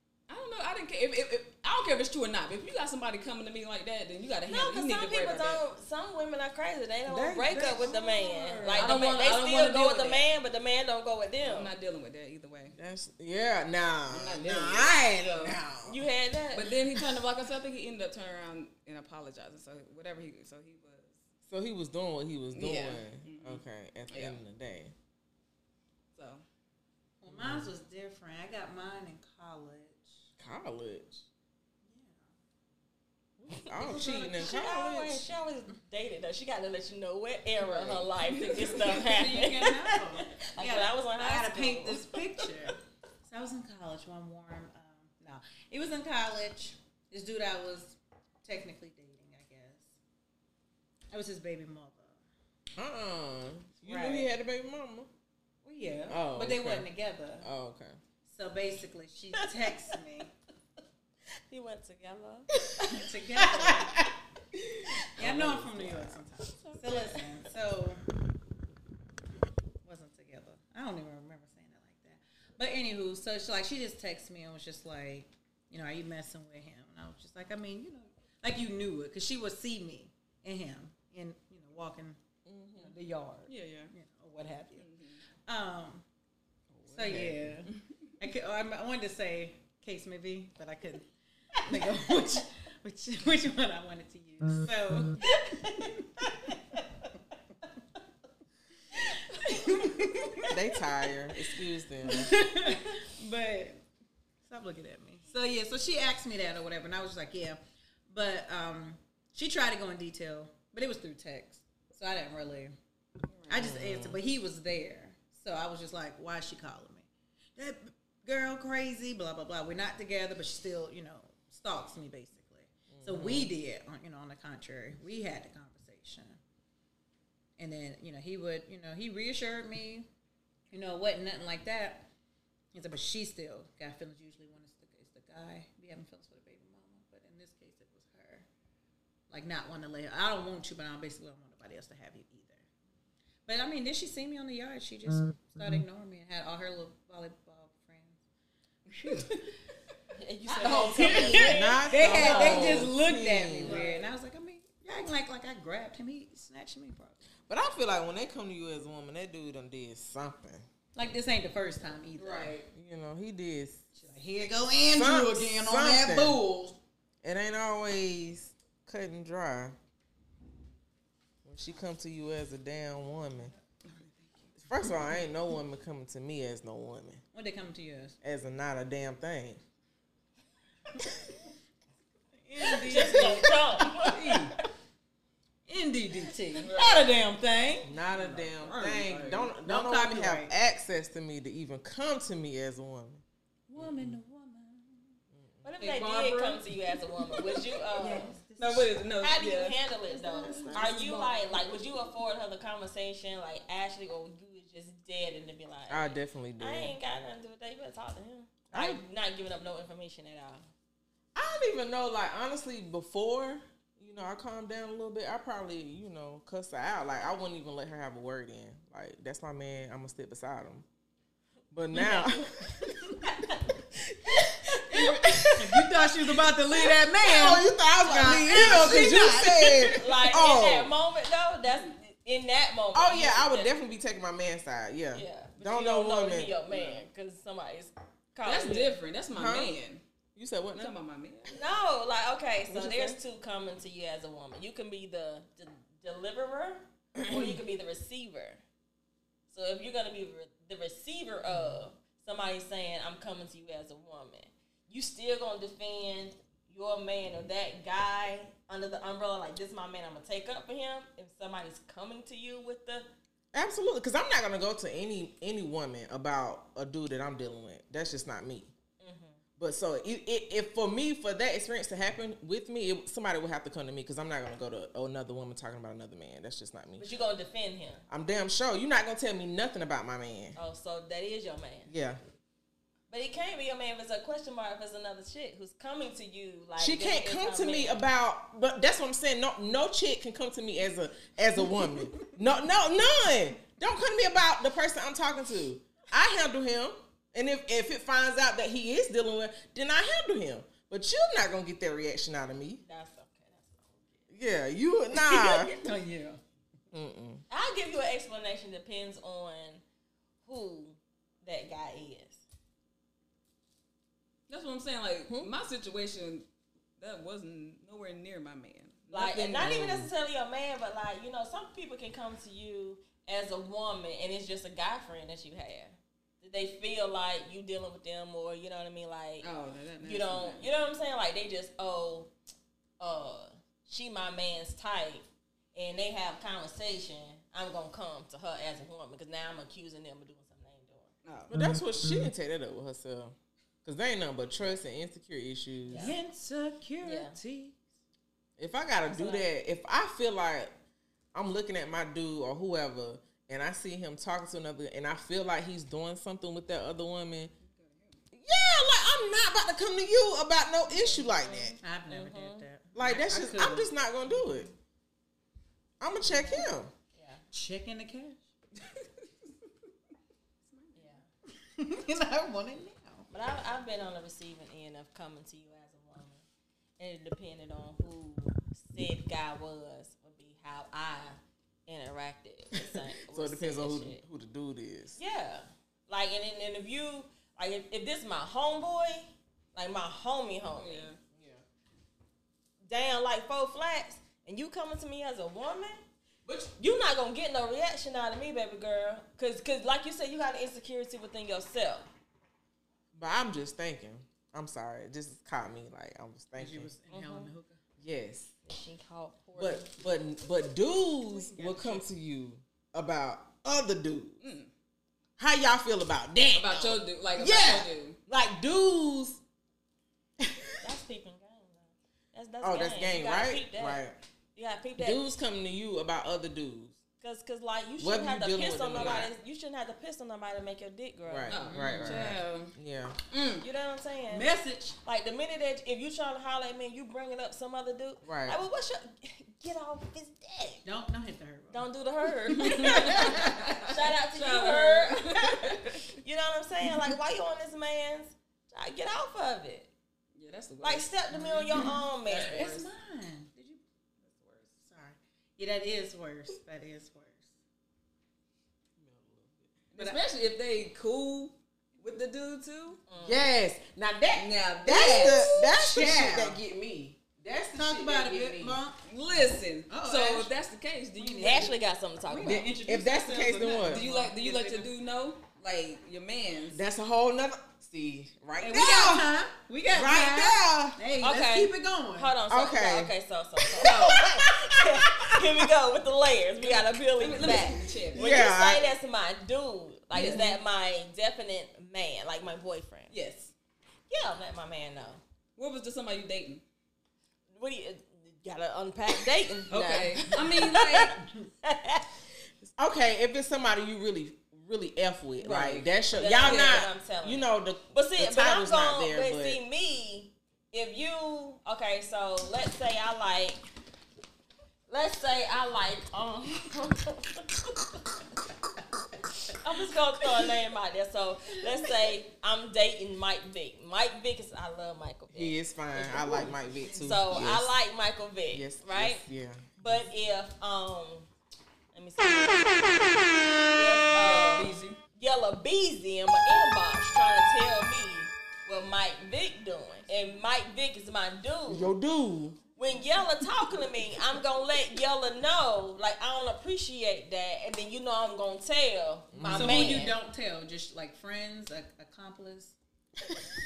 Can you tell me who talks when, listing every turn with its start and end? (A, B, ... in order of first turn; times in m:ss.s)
0:00.3-0:05.6 A
0:04.5-0:11.7 B
0:07.1-0:08.8 C
0:08.7-0:10.3 A
0:11.4-0:12.8 A
0:12.8-0:16.0 C
0:14.1-0:15.6 A
0:15.9-0:16.7 B
0:16.5-0:21.2 A
0:21.5-0:24.9 C
0:22.5-0:24.4 A
0:26.2-0:26.4 A
0:27.2-0:30.1 D
0:27.3-0:27.7 C
0:30.4-0:31.2 C
0:31.8-0:32.2 D
0:33.5-0:35.3 C
0:33.7-0:42.2 B
0:37.6-0:39.5 A
0:38.9-0:49.9 D
0:51.1-0:52.2 D
0:52.8-0:55.1 C
0:53.8-0:54.3 D
0:55.6-0:57.5 D
0:56.1-0:56.9 C
0:57.4-0:58.0 C
0:58.3-1:00.3 D
0:59.4-0:59.7 B
1:01.5-1:03.4 B
1:02.9-1:04.1 D
1:04.5-1:06.7 C
1:05.2-1:08.0 D
1:06.7-1:07.2 B
1:09.8-1:22.2 D
1:22.5-1:22.9 C
1:22.8-1:24.9 D
1:23.5-1:23.9 A
1:24.8-1:25.2 A
1:25.5-1:26.0 D
1:26.7-1:27.8 A
1:26.9-1:36.8 D
1:27.1-1:27.5 C
1:39.0-1:40.6 D
1:40.5-1:42.4 C
1:42.0-1:43.8 D
1:44.4-1:52.8 D
1:53.3-1:53.8 A
1:53.5-2:06.4 D
1:53.5-1:54.2 C
2:02.9-2:03.5 C
2:07.6-2:10.1 D
2:10.7-2:12.1 D
2:12.7-2:18.5 D
2:19.3-2:22.7 D
2:23.5-2:28.2 D
2:29.0-2:29.5 D
2:30.2-2:32.9 B
2:30.5-2:31.5 A
2:30.6-2:37.2 D
2:31.4-2:33.8 C
2:32.1-2:32.9 A
2:33.6-2:34.2 A
2:37.5-2:40.6 C
2:41.0-2:42.6 D
2:42.2-2:42.7 A
2:42.7-2:43.8 C
2:44.0-2:46.8 D
2:44.9-2:46.4 C
2:47.2-2:49.8 C
2:51.4-2:53.5 C
2:53.8-2:54.5 A
2:54.7-2:57.2 C
2:57.3-2:58.2 D
2:58.2-2:59.6 C
3:02.3-3:04.4 D
3:02.7-3:04.6 B
3:02.9-3:03.2 C
3:04.1-3:04.5 A
3:05.7-3:07.9 D
3:06.6-3:07.1 A
3:07.8-3:13.2 C
3:08.1-3:09.5 A
3:09.6-3:10.5 D
3:13.7-3:15.2 D
3:13.8-3:14.2 C
3:15.3-3:15.7 C
3:15.6-3:18.4 B
3:15.8-3:17.7 A
3:18.0-3:19.0 D
3:18.6-3:19.8 A
3:19.2-3:30.7 B
3:20.0-3:21.8 D
3:25.9-3:27.0 C
3:28.7-3:29.0 C
3:31.4-3:40.8 C
3:41.7-3:50.9 C
3:41.9-3:42.4 B
3:45.5-3:50.2 D
3:49.9-3:53.7 B
3:52.9-3:57.1 C
3:55.1-3:59.0 B
3:58.4-4:00.0 A
3:59.3-3:59.7 C
4:00.4-4:01.0 C
4:00.8-4:01.6 A
4:01.5-4:08.6 B
4:02.7-4:03.2 C
4:07.2-4:07.6 C
4:09.5-4:23.1 B
4:11.5-4:11.8 C
4:23.5-4:28.7 C
4:29.0-4:29.4 B
4:29.6-4:37.1 C
4:37.0-4:38.0 B
4:38.1-4:40.6 C
4:40.6-4:41.9 B
4:41.9-4:42.2 C
4:43.1-4:48.0 B
4:46.8-5:02.8 C
5:02.8-5:04.3 B
5:04.3-5:05.8 C
5:05.3-5:05.7 B
5:05.6-5:06.4 D
5:06.9-5:07.4 C
5:07.5-5:09.8 B
5:10.4-5:12.4 B
5:14.5-5:16.5 A
5:17.0-5:19.8 A
5:19.1-5:29.5 B
5:19.6-5:20.1 C
5:29.4-5:30.7 A
5:30.0-5:32.3 B
5:33.0-5:35.2 B
5:35.8-5:41.1 B
5:41.2-5:41.5 A
5:41.5-5:46.1 C
5:45.9-5:46.2 B
5:45.9-5:47.8 D
5:47.0-5:47.4 B
5:48.6-5:50.7 C
5:49.1-5:49.5 B
5:51.3-5:57.5 C
5:57.6-5:58.2 A
5:58.3-6:01.8 C
6:01.2-6:02.7 B
6:01.8-6:03.9 D
6:03.0-6:04.7 C
6:06.0-6:06.9 C
6:06.3-6:07.4 B
6:07.2-6:08.4 D
6:10.6-6:11.2 A
6:11.0-6:11.3 B
6:11.6-6:13.3 D
6:13.3-6:16.4 B
6:17.0-6:24.2 B
6:23.3-6:25.2 C
6:25.2-6:31.1 B
6:30.7-6:31.2 A
6:31.3-6:31.6 C
6:32.9-6:36.0 B
6:36.7-6:42.1 B
6:43.2-6:46.9 C
6:46.6-6:47.8 D
6:47.1-6:47.5 B
6:48.0-6:48.5 C
6:48.7-6:49.9 B
6:49.6-6:54.4 C
6:51.3-6:52.0 D
6:54.4-6:54.7 A
6:55.4-6:59.4 C
6:56.5-6:58.2 A
7:00.4-7:00.8 C
7:00.8-7:04.0 B
7:02.6-7:04.2 C
7:04.6-7:05.2 B
7:05.0-7:07.0 C
7:07.2-7:11.7 B
7:08.0-7:09.3 C
7:08.9-7:09.3 A
7:11.3-7:13.2 C
7:11.5-7:12.7 A
7:11.7-7:12.1 D
7:13.3-7:13.6 A
7:13.6-7:14.5 B
7:14.3-7:15.0 D
7:15.0-7:20.8 B
7:18.2-7:18.6 C
7:20.8-7:21.9 D
7:21.7-7:29.9 B
7:22.5-7:23.6 A
7:22.6-7:23.9 D
7:24.2-7:26.0 A
7:30.4-7:31.1 A
7:30.8-7:32.9 B
7:31.3-7:33.8 D
7:32.3-7:32.7 A
7:34.2-7:34.7 A
7:35.0-7:37.5 D
7:39.0-7:39.8 C
7:39.9-7:43.0 A
7:43.1-7:43.5 B
7:43.2-7:48.8 C
7:44.3-7:45.5 A
7:44.9-7:46.6 D
7:47.8-7:49.0 D
7:49.0-7:51.7 A
7:49.9-7:50.5 D
7:51.2-7:51.7 D
7:51.4-7:52.7 B
7:52.3-7:54.9 D
7:52.4-7:54.0 C
7:53.7-7:56.8 A
7:56.7-7:59.4 C
7:58.6-8:02.4 D
7:59.9-8:01.0 C
8:01.2-8:13.1 B
8:02.5-8:03.1 C
8:03.8-8:05.5 C
8:03.8-8:04.2 A
8:06.7-8:08.3 A
8:08.1-8:09.0 C
8:10.1-8:10.6 A
8:10.2-8:10.5 D
8:13.1-8:13.5 A
8:14.1-8:15.2 B
8:15.6-8:16.6 A
8:17.6-8:22.1 B
8:19.7-8:21.2 A
8:22.8-8:29.6 C
8:25.4-8:26.8 A
8:26.1-8:33.6 B
8:34.9-8:37.8 B
8:39.5-8:49.2 B
8:45.3-8:47.7 C
8:48.5-8:49.8 C
8:49.8-8:51.3 B
8:51.9-9:01.9 B
8:54.1-8:55.0 A
9:01.7-9:02.6 C
9:02.8-9:10.2 B
9:09.3-9:10.1 C
9:09.5-9:12.8 D